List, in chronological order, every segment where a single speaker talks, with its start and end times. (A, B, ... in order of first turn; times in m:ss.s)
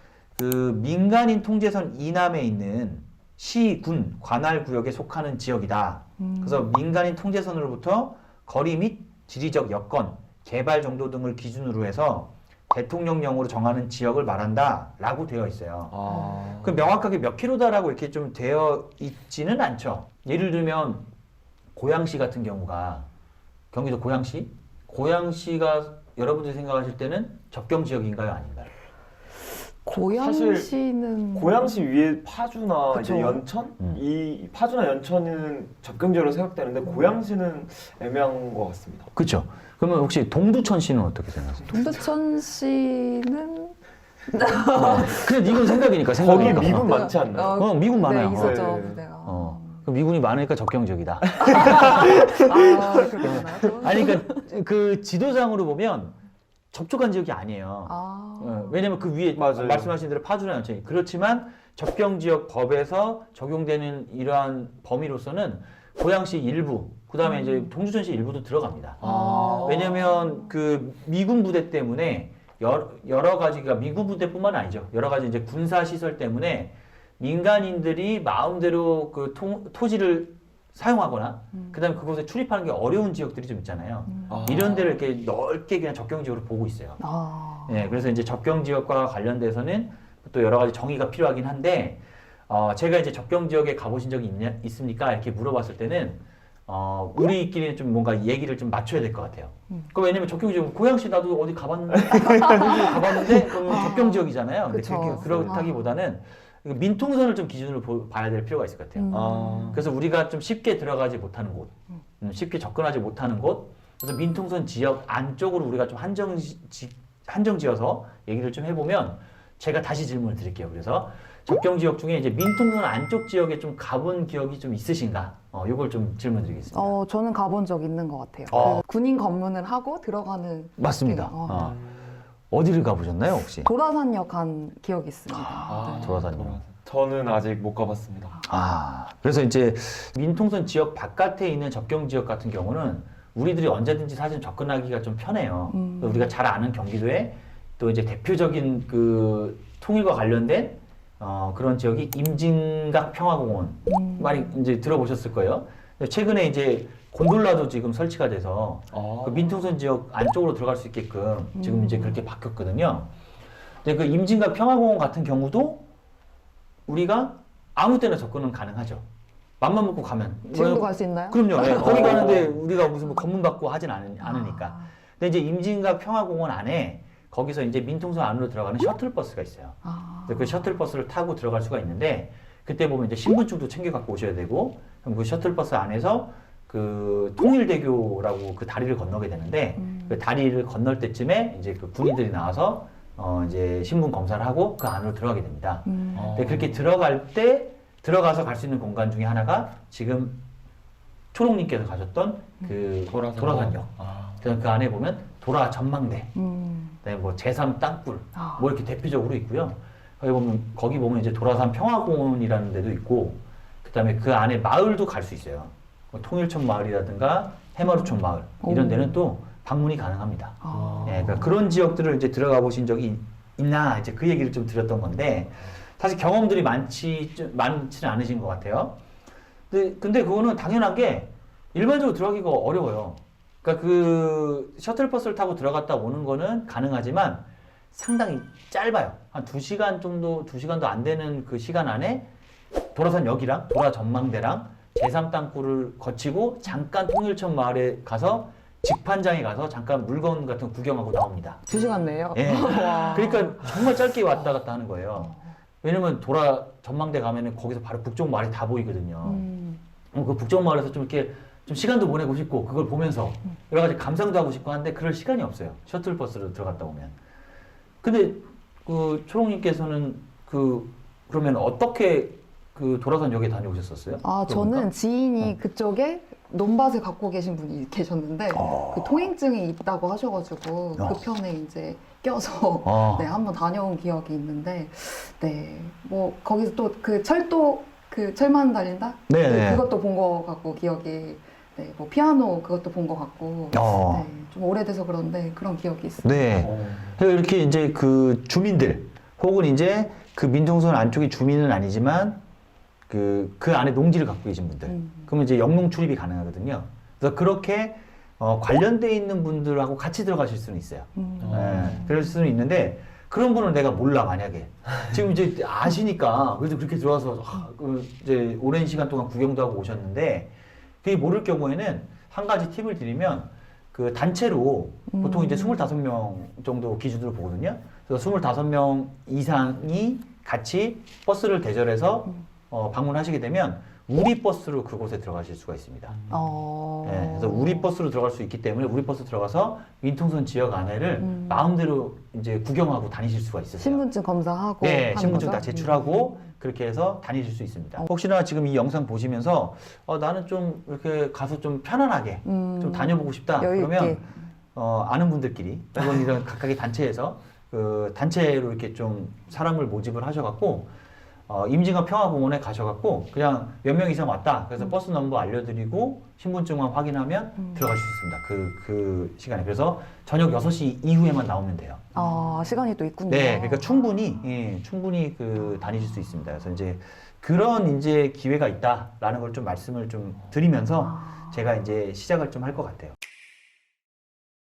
0:00.4-0:21.0 A
0:06.2-0:06.7 B
0:15.9-0:16.8 C
0:21.7-0:23.1 A
0:23.7-0:28.7 A
0:29.8-0:31.8 B
0:29.9-0:30.7 C
0:31.3-0:39.1 C
0:32.9-0:33.4 B
0:39.1-0:41.8 A
0:41.6-0:43.8 B
0:44.3-0:45.8 B
0:44.7-0:46.9 A
0:46.1-0:47.6 C
0:46.4-0:49.8 B
0:47.4-0:52.2 A
0:48.2-0:49.0 C
0:51.4-0:54.4 B
0:51.5-0:52.3 C
0:53.2-0:56.2 A
0:56.7-1:27.0 A
0:57.8-0:58.8 B
0:59.3-1:00.0 C
1:09.0-1:10.1 C
1:09.0-1:09.8 B
1:21.5-1:21.8 B
1:24.1-1:24.6 B
1:24.3-1:24.8 C
1:27.0-1:27.8 B
1:27.7-2:06.9 A
1:42.1-1:43.4 C
1:43.5-1:45.8 B
1:45.0-1:45.6 C
1:49.0-1:49.8 B
1:49.1-1:49.8 C
2:06.7-2:11.7 B
2:08.5-2:08.8 A
2:10.8-2:11.8 A
2:11.5-2:12.0 C
2:12.5-2:13.7 A
2:13.6-2:16.1 B
2:15.3-2:16.6 A
2:15.7-2:18.4 C
2:18.4-2:43.1 A
2:25.7-2:26.3 B
2:33.9-2:34.5 B
2:38.9-2:39.6 C
2:41.6-2:42.2 B
2:43.8-2:45.9 A
2:46.9-2:49.0 A
2:49.6-3:20.4 A
2:50.5-2:52.0 B
2:51.8-2:52.4 C
2:54.2-2:54.9 B
2:59.8-3:00.6 B
3:09.8-3:10.1 B
3:15.9-3:16.2 B
3:16.1-3:16.8 C
3:21.3-3:26.3 A
3:23.1-3:24.4 C
3:26.3-3:27.0 B
3:27.0-3:49.0 A
3:28.4-3:28.6 B
3:38.6-3:39.1 B
3:40.6-3:41.5 B
3:49.7-4:02.3 A
4:02.9-4:11.8 A
4:11.7-4:13.8 B
4:12.3-4:19.5 A
4:15.2-4:15.4 B
4:19.2-4:19.8 B
4:20.1-4:27.1 A
4:28.0-4:34.9 A
4:34.2-4:56.5 B
4:38.5-4:39.3 A
4:41.0-4:41.2 A
4:42.8-4:43.3 A
4:49.3-4:49.8 A
4:53.7-4:54.3 A
4:56.2-5:02.4 A
4:56.6-4:57.1 C
5:03.1-5:20.5 A
5:04.9-5:05.3 B
5:11.2-5:12.0 B
5:11.4-5:12.0 C
5:21.0-5:36.2 A
5:25.1-5:25.8 B
5:36.3-5:37.8 B
5:37.0-5:44.0 A
5:41.2-5:41.5 B
5:43.8-5:46.3 B
5:44.8-6:00.9 A
5:52.4-5:54.3 B
6:01.5-6:12.1 A
6:12.1-6:14.0 B
6:13.3-6:23.2 A